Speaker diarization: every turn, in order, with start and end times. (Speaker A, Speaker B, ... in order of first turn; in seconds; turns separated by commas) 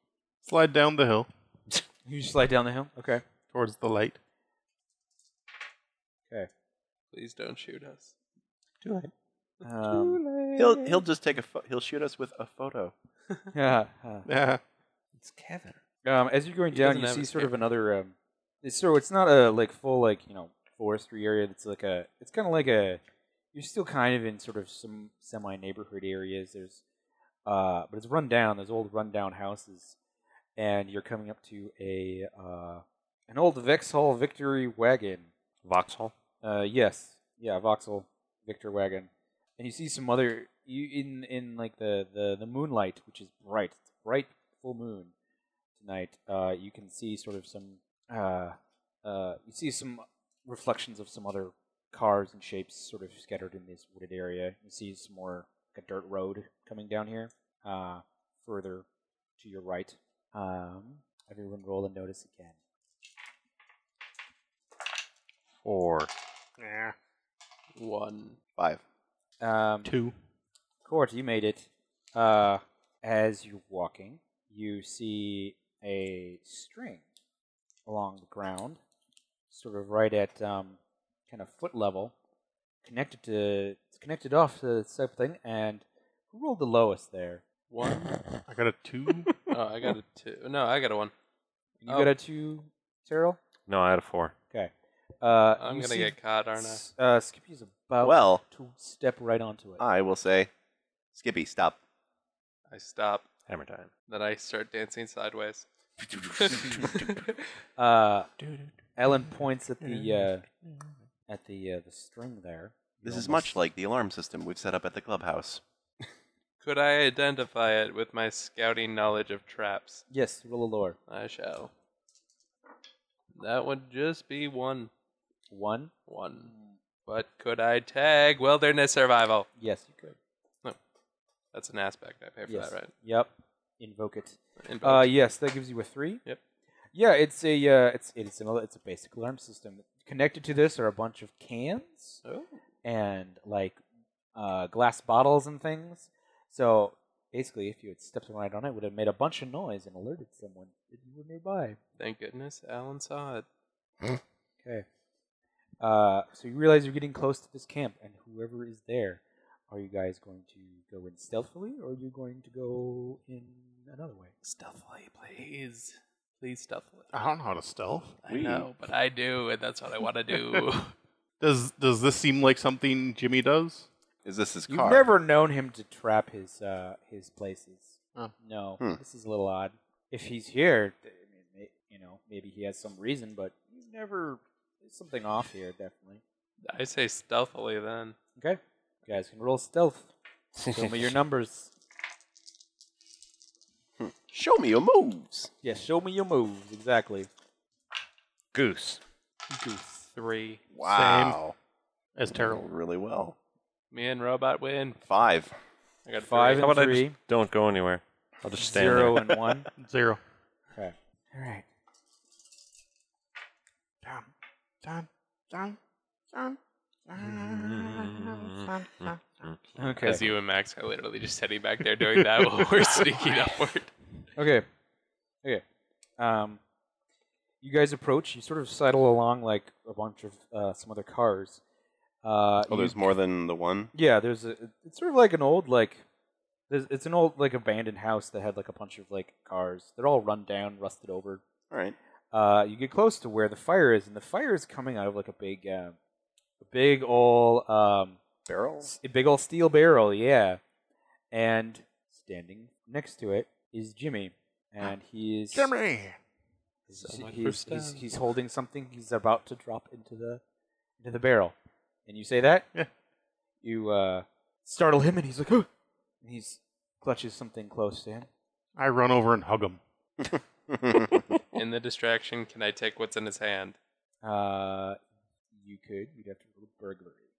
Speaker A: 0.4-1.3, Speaker B: 2.0-3.2, Speaker A: 3.5-4.2, Speaker C: 7.1-8.1, Speaker B: 9.6-10.2, Speaker D: 10.5-12.9, Speaker B: 13.5-14.3, Speaker A: 14.2-14.6, Speaker E: 15.2-15.8, Speaker B: 16.0-23.0, Speaker C: 16.7-17.5, Speaker B: 23.5-26.8, Speaker B: 27.4-30.0, Speaker B: 30.6-35.3, Speaker E: 35.6-36.1, Speaker B: 36.4-45.1, Speaker B: 45.8-58.8, Speaker B: 59.4-62.5, Speaker E: 65.6-66.1, Speaker A: 66.6-66.9, Speaker C: 67.8-68.4, Speaker B: 69.4-69.9, Speaker A: 69.8-70.1, Speaker B: 70.8-77.0, Speaker B: 77.8-78.8, Speaker B: 79.5-82.1, Speaker B: 82.8-87.4, Speaker C: 87.7-88.2, Speaker A: 88.5-89.3, Speaker C: 89.5-91.1, Speaker B: 91.8-93.4, Speaker C: 91.9-92.1, Speaker E: 93.7-94.3, Speaker B: 94.5-99.8, Speaker C: 95.6-96.8, Speaker D: 98.0-98.4, Speaker D: 99.8-100.5, Speaker D: 101.1-101.8, Speaker C: 102.7-103.2, Speaker E: 103.5-103.9, Speaker C: 104.1-105.7, Speaker D: 106.2-106.6, Speaker C: 106.2-107.2, Speaker B: 107.8-108.3, Speaker B: 109.0-110.4, Speaker B: 111.3-113.5, Speaker D: 113.0-115.6, Speaker C: 116.6-120.0, Speaker B: 120.1-121.0, Speaker C: 121.1-121.7, Speaker C: 123.3-124.9, Speaker B: 125.5-125.9, Speaker C: 126.1-126.5, Speaker B: 126.4-126.7, Speaker C: 127.0-129.5, Speaker B: 129.6-130.2, Speaker C: 131.5-132.9, Speaker B: 132.5-136.2, Speaker C: 134.6-135.1, Speaker B: 136.9-142.2, Speaker B: 142.8-143.8, Speaker B: 144.3-151.8, Speaker C: 152.0-153.4, Speaker B: 155.8-164.3, Speaker C: 164.4-167.1, Speaker A: 167.1-168.2, Speaker C: 168.2-170.9, Speaker D: 168.3-168.7, Speaker A: 171.4-173.9, Speaker D: 174.2-175.1, Speaker B: 174.7-186.2, Speaker C: 186.6-188.2, Speaker B: 188.4-190.1, Speaker E: 190.6-191.2, Speaker B: 190.7-191.7, Speaker D: 194.0-195.5, Speaker B: 195.6-197.3, Speaker E: 198.5-199.0, Speaker B: 199.6-200.0, Speaker C: 200.1-200.6, Speaker D: 200.7-201.5, Speaker A: 200.8-201.4, Speaker A: 202.2-202.6, Speaker D: 202.3-203.3, Speaker C: 203.9-205.0, Speaker D: 205.0-205.5, Speaker C: 206.0-206.7, Speaker B: 206.2-207.2, Speaker E: 206.6-209.4, Speaker B: 208.6-209.7, Speaker A: 209.8-210.2, Speaker B: 210.7-211.6, Speaker A: 214.8-215.8, Speaker A: 216.3-219.4, Speaker E: 217.3-220.1, Speaker B: 219.8-220.2, Speaker C: 220.0-223.9, Speaker A: 222.2-222.5, Speaker B: 224.3-224.7, Speaker B: 226.2-226.6, Speaker B: 227.6-231.6, Speaker B: 232.2-233.1, Speaker D: 232.7-233.9, Speaker B: 233.9-236.0, Speaker B: 236.7-241.4, Speaker D: 241.7-241.9, Speaker B: 242.3-245.9, Speaker B: 246.6-248.2, Speaker D: 248.5-248.8, Speaker B: 248.8-250.6, Speaker B: 251.3-255.7, Speaker A: 255.5-256.2, Speaker B: 256.9-260.4, Speaker C: 257.0-258.0, Speaker B: 261.0-261.5, Speaker B: 262.1-262.7, Speaker B: 263.6-265.7, Speaker B: 266.2-268.3, Speaker A: 268.8-269.8, Speaker D: 270.2-271.4, Speaker C: 271.5-273.8, Speaker B: 274.2-275.0, Speaker B: 275.6-277.2